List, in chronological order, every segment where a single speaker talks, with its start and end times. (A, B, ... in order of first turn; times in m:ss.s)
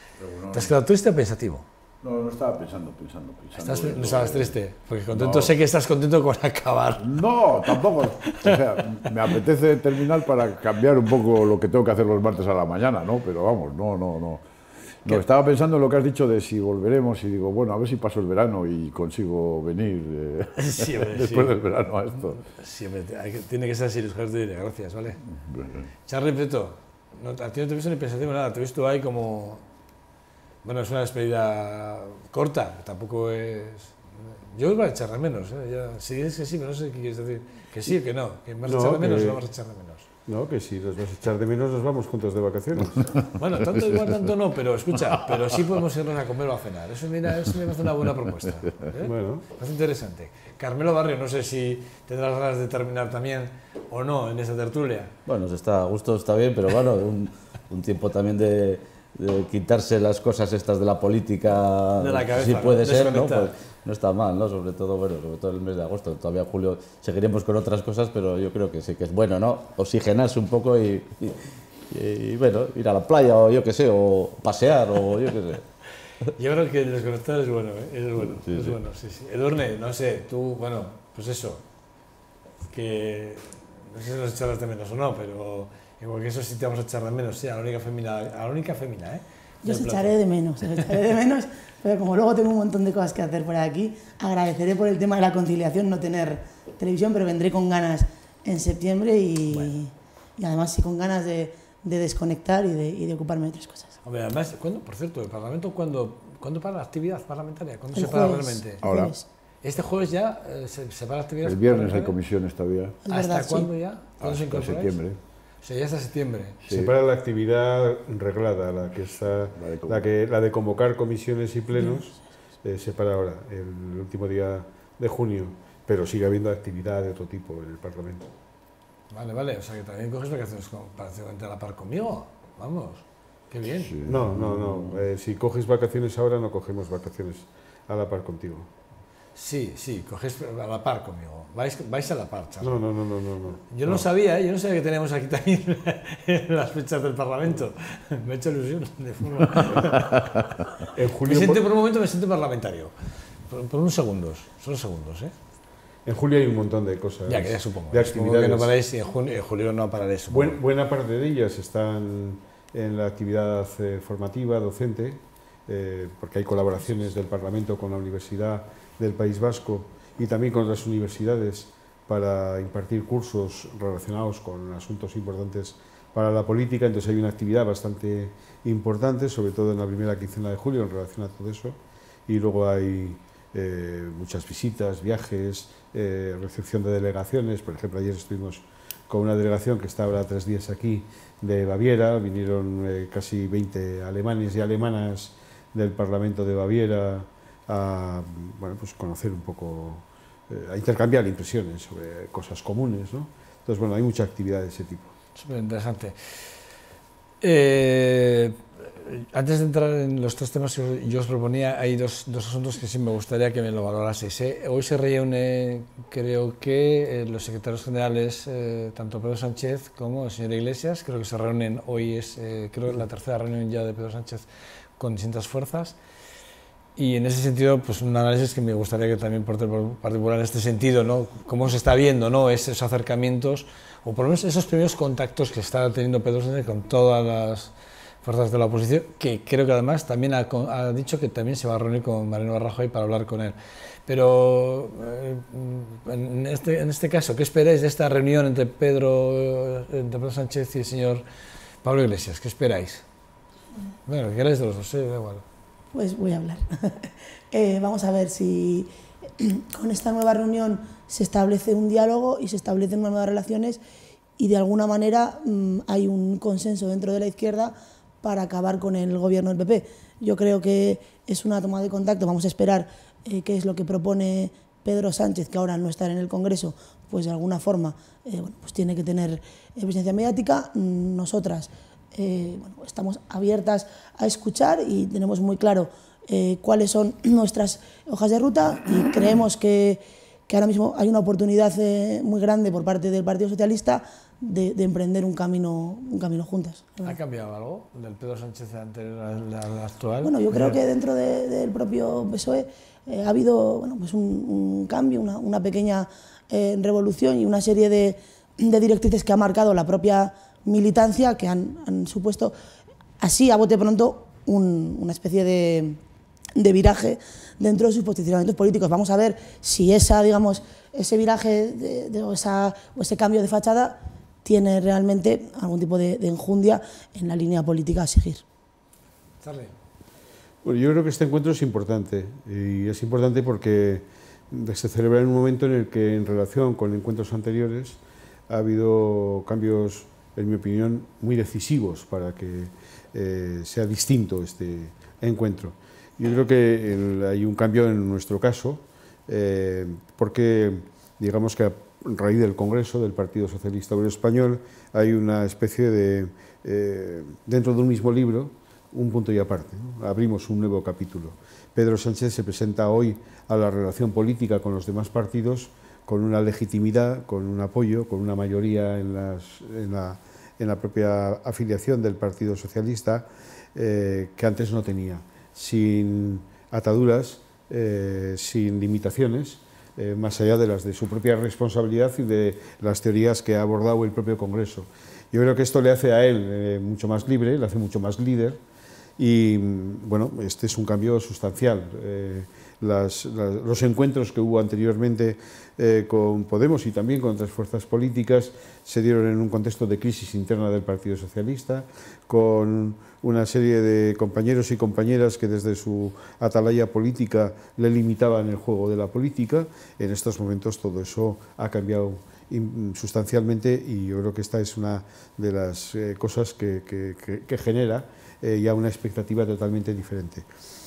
0:00.2-0:00.8 A
0:00.5-0:01.6 B
0:02.0-0:04.6 A
0:03.6-0:07.1 B
0:05.1-0:05.5 A
0:07.0-0:14.4 A
0:07.7-0:08.6 B
0:15.0-0:22.4 A
0:20.6-0:21.6 B
0:22.4-0:25.2 B
0:25.5-0:25.9 A
0:26.1-0:29.6 B
0:30.6-0:34.0 B
0:34.5-0:40.1 B
0:38.7-0:39.4 C
0:40.3-0:43.1 C
0:43.3-0:55.1 B
0:49.0-0:49.4 C
0:55.3-1:15.6 D
1:02.0-1:03.5 B
1:16.4-1:21.6 B
1:18.3-1:18.8 D
1:22.7-1:30.2 B
1:29.6-1:44.0 E
1:44.0-1:48.9 B
1:48.0-1:49.3 E
1:48.8-1:49.1 A
1:49.6-1:52.2 B
1:51.4-1:53.0 A
1:53.1-1:53.7 E
1:53.1-1:55.0 B
1:54.2-1:55.2 A
1:55.6-1:56.6 B
1:56.6-1:56.9 A
1:56.7-2:08.3 C
1:59.5-2:00.1 A
2:09.1-2:14.0 B
2:13.8-2:15.0 A
2:14.0-2:18.7 C
2:19.4-2:22.7 B
2:22.6-2:24.0 C
2:23.7-2:32.9 B
2:30.9-2:31.6 C
2:33.5-2:35.3 B
2:36.1-2:38.7 C
2:37.3-2:40.6 B
2:40.3-3:25.1 C
3:25.4-3:26.2 B
3:27.4-3:44.5 B
3:45.0-3:46.0 B
3:47.0-3:57.7 B
3:58.2-4:03.6 B
4:04.1-4:11.2 B
4:11.8-4:13.0 B
4:14.1-4:15.4 B
4:15.9-4:23.8 E
4:24.4-4:57.2 E
4:57.0-5:00.8 B
5:00.2-5:12.5 E
5:13.2-5:16.0 E
5:16.6-5:28.4 E
5:29.4-5:29.8 B
5:30.6-6:28.6 C
6:29.2-7:00.5 C